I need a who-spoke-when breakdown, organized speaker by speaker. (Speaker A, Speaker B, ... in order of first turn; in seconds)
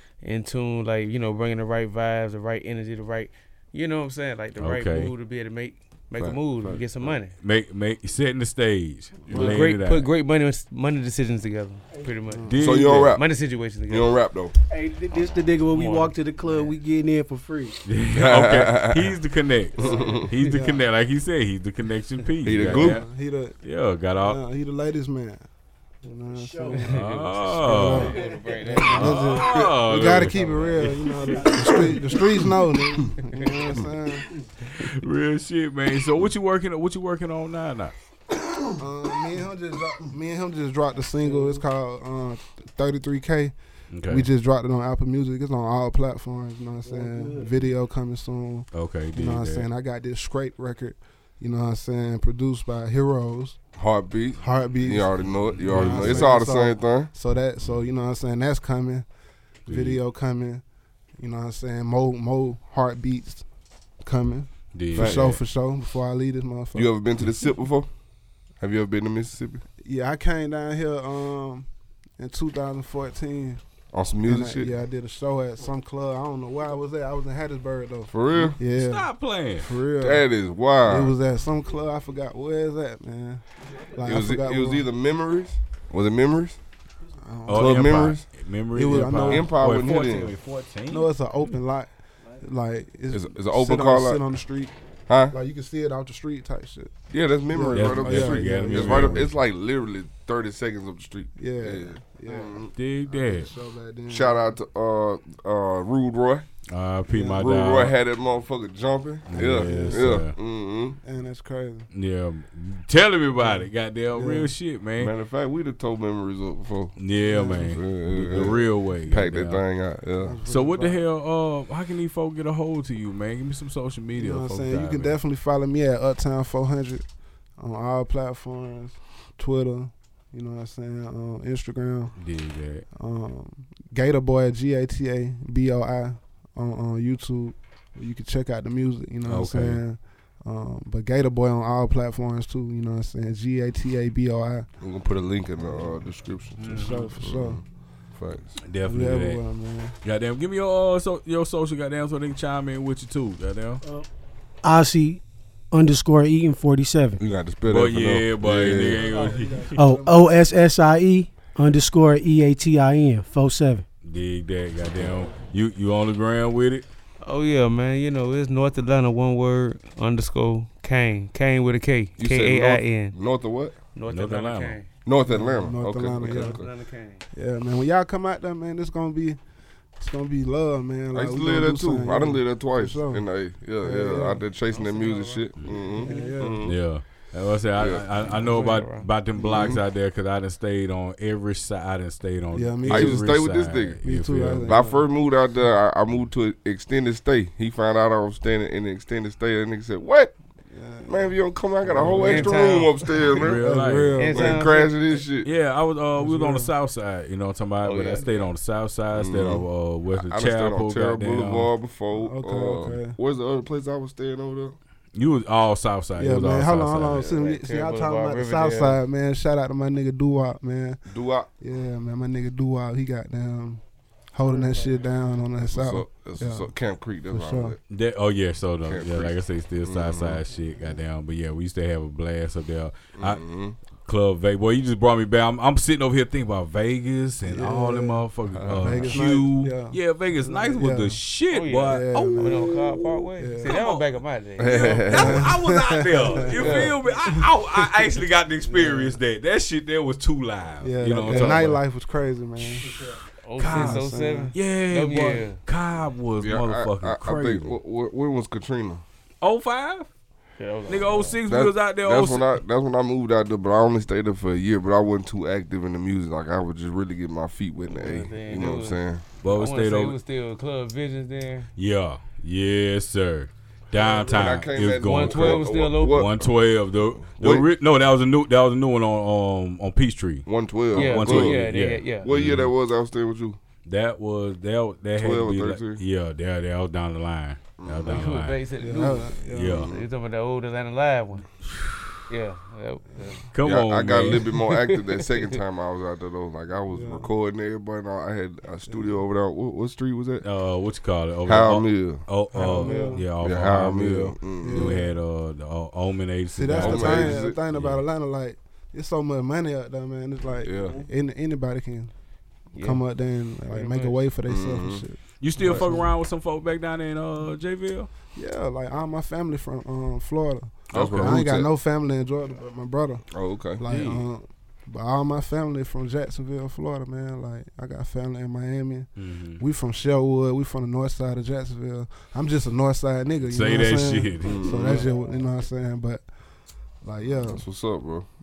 Speaker A: 0.2-7.3, 9.3-14.2, 15.6-16.7, 26.7-29.5, 30.3-32.0, 33.3-33.8, 167.2-173.2, 173.9-174.9, 176.2-177.2, 184.6-186.3, 188.2-189.1, 202.2-203.3, 204.2-205.1, 207.8-208.5, 217.2-219.0, 224.4-224.9, 241.5-245.3, 246.4-246.8, 248.7-249.2, 253.4-255.6, 260.6-261.4, 267.9-271.7, 275.0-276.2, 280.9-282.3, 288.1-291.4, 292.3-293.4, 295.0-295.6, 302.6-303.2, 312.7-313.0, 313.7-314.2, 334.7-335.2
Speaker B: 4.6-5.1, 7.4-10.1, 12.5-13.2, 17.9-23.1, 23.6-24.4, 26.9-28.2, 28.8-31.1, 34.6-37.9, 43.9-44.3, 48.7-49.7, 55.4-56.3, 59.7-60.0, 64.7-65.4, 78.6-79.7, 87.5-91.5, 97.7-99.4, 102.7-103.5, 106.7-107.9, 109.3-110.3, 111.9-115.1, 117.0-119.6, 120.5-125.2, 132.2-132.8, 139.2-139.8, 146.6-147.2, 148.6-149.4, 150.0-153.8, 157.7-159.8, 164.0-166.8, 174.1-174.8, 186.6-194.8, 203.3-204.3, 205.4-211.7, 215.1-217.3, 227.9-233.4, 234.0-244.1, 244.7-251.8, 253.6-257.8, 259.4-260.1, 260.9-262.5, 269.4-270.2, 271.7-282.7, 283.8-288.6, 289.5-289.9, 293.5-294.6, 300.4-308.0, 315.4-318.1, 320.9-321.4, 323.8-324.3, 329.1-329.6, 333.4-334.7
Speaker C: 6.2-7.2, 9.3-9.6, 12.6-13.2, 13.9-14.5, 18.1-19.1, 19.9-20.2, 22.4-23.0, 29.4-29.8, 53.8-57.1, 64.9-65.4, 66.7-67.9, 68.6-69.6, 73.9-74.8, 78.1-78.6, 80.0-81.1, 84.0-86.6, 87.5-88.2, 89.2-90.3, 93.1-94.2, 95.1-95.3, 97.1-102.7, 104.1-106.5, 107.4-111.0, 115.0-117.0, 117.6-120.4, 144.8-147.6, 148.1-148.6, 157.2-159.1, 164.8-165.3, 172.2-173.8, 175.0-176.7, 181.1-186.8, 187.8-188.2, 189.4-189.8, 192.9-194.0, 194.6-200.3, 201.0-203.6, 204.3-205.5, 209.1-214.8, 221.1-221.5, 225.6-227.8, 228.8-230.4, 233.1-233.8, 238.5-239.1, 244.6-245.5, 246.6-247.0, 256.4-259.0, 261.4-269.2, 274.0-277.7, 280.4-281.6, 282.2-283.6, 285.2-286.0, 287.8-288.2, 289.6-290.1, 293.6-300.4, 301.4-302.3, 303.4-305.0, 306.8-307.6, 310.6-311.0, 314.4-315.1, 320.9-321.7, 323.3-323.8, 334.4-335.1, 337.4-338.3
Speaker D: 9.3-9.6, 12.2-12.6, 20.3-20.8, 22.5-23.6, 24.2-25.4, 26.0-34.3, 38.8-43.5, 44.1-53.6, 54.4-59.1, 59.7-60.6, 61.2-63.4, 64.0-66.9, 69.8-73.6, 74.2-80.3, 80.8-84.9, 87.2-87.8, 88.7-89.5, 90.9-94.7, 95.3-96.9, 97.5-99.3, 101.4-104.4, 107.1-107.5, 109.3-110.2, 111.0-111.9, 113.4-114.5, 117.2-118.6, 120.2-121.0, 124.2-127.0, 127.6-132.2, 132.9-144.7, 145.6-146.0, 146.7-147.6, 148.8-149.9, 158.8-160.5, 175.3-176.6, 177.3-179.4, 180.0-183.2, 183.8-184.4, 186.0-186.7, 192.5-193.3, 194.0-195.1, 200.7-202.6, 203.4-204.7, 206.2-206.7, 212.1-213.2, 216.2-221.0, 221.6-223.8, 224.3-226.7, 227.3-227.8, 237.4-241.2, 241.8-242.7, 243.4-243.7, 245.1-247.8, 250.8-252.9, 253.6-254.5, 288.8-289.9, 296.9-297.3, 298.9-299.1, 302.5-303.2, 304.6-305.1, 306.5-312.1, 312.8-316.1, 318.3-336.2, 337.0-337.6
Speaker E: 11.9-12.2, 14.7-17.8, 19.8-20.4, 26.3-28.6, 31.2-32.4, 41.1-41.6, 46.8-47.7, 153.8-154.1, 154.6-157.2, 159.7-163.8, 252.7-253.2